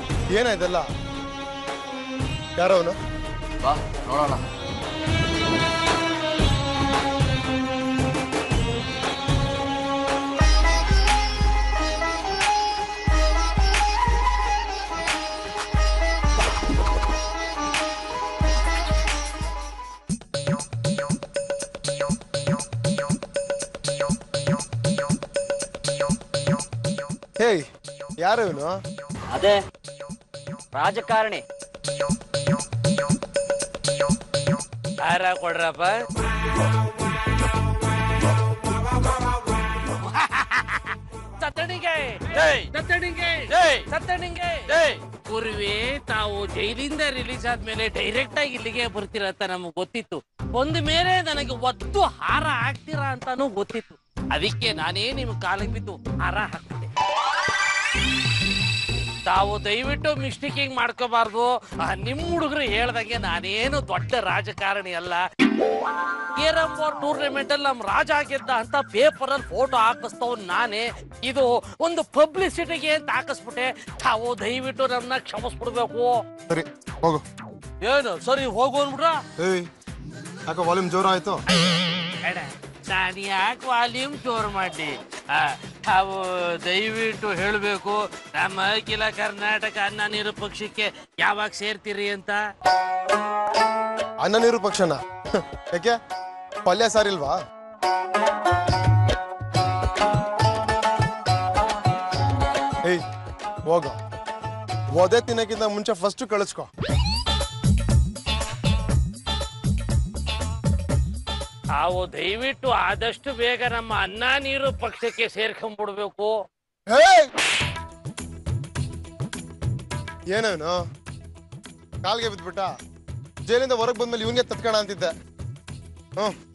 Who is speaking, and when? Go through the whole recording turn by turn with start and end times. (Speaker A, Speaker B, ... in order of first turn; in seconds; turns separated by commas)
Speaker A: 0.3-0.9, Speaker A: 2.6-3.0, Speaker B: 3.6-4.4, Speaker A: 27.4-27.6, Speaker A: 28.2-28.8, Speaker B: 29.3-29.6, Speaker B: 30.7-31.4, Speaker C: 35.0-36.0, Speaker C: 39.8-56.9, Speaker B: 43.5-43.8, Speaker B: 44.7-45.0, Speaker C: 59.2-65.2, Speaker C: 66.4-76.2, Speaker A: 76.5-77.2, Speaker C: 77.8-79.2, Speaker A: 79.4-79.7, Speaker A: 80.5-81.4, Speaker C: 82.2-92.4, Speaker A: 94.2-96.0, Speaker A: 96.6-97.4, Speaker A: 103.7-104.0, Speaker A: 104.9-106.7, Speaker C: 111.8-116.3, Speaker A: 116.9-117.3, Speaker A: 120.3-120.8, Speaker A: 122.0-122.7, Speaker A: 123.5-125.1